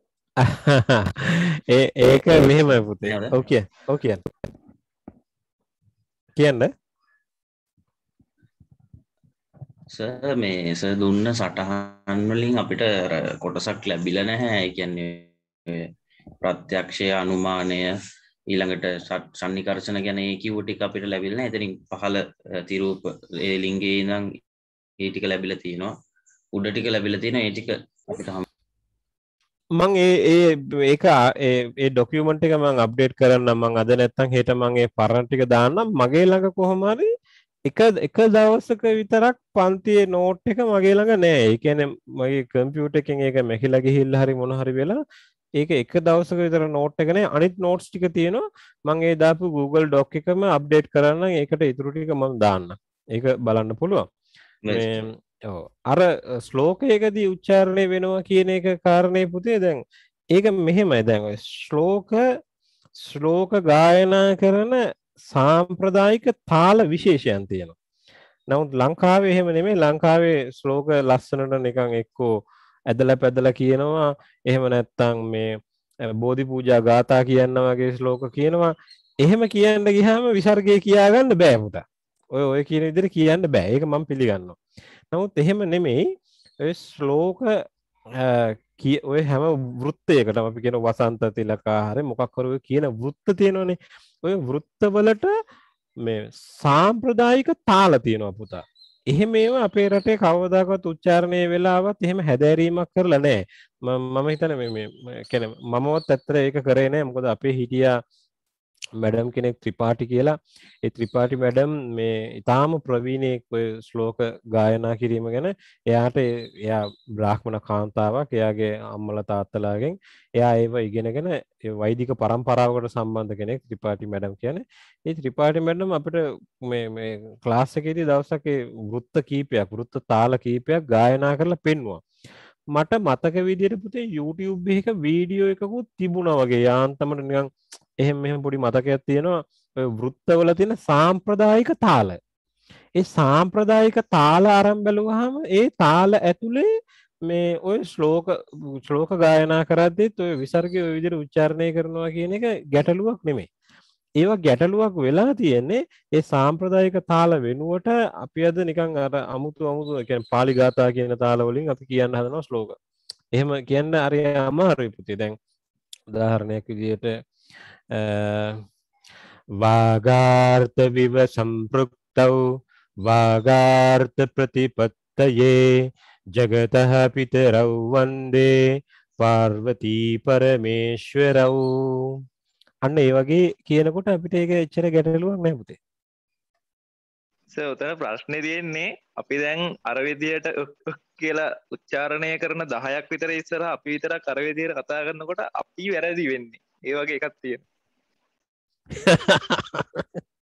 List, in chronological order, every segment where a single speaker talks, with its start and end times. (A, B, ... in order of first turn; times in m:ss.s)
0:00.4-0:04.2 A
0:03.0-0:03.4 B
0:06.4-0:06.7 A
0:09.9-0:15.9 B
0:16.4-0:18.0 B
0:18.5-0:24.3 B
0:25.0-0:25.9 B
0:26.5-0:28.4 B
0:29.8-0:37.1 A
0:37.7-0:45.0 A
0:45.6-0:54.1 A
0:54.6-0:55.1 B
0:54.7-0:59.8 A
1:00.3-1:02.2 A
1:03.0-1:07.8 A
1:08.5-1:24.6 A
1:25.1-1:26.0 A
1:26.6-1:27.6 A
1:28.2-1:35.3 A
1:36.0-1:48.0 A
1:49.0-2:12.0 A
2:12.7-2:17.5 A
2:18.0-2:22.2 A
2:23.0-2:26.7 A
2:27.3-2:33.5 A
2:34.2-2:42.8 A
2:43.3-2:45.4 A
2:46.1-2:47.2 A
2:47.9-2:48.6 A
2:49.6-2:52.4 A
2:53.0-2:58.6 A
2:59.2-3:02.2 A
3:02.9-3:05.8 A
3:07.5-3:17.6 C
3:19.0-3:20.0 A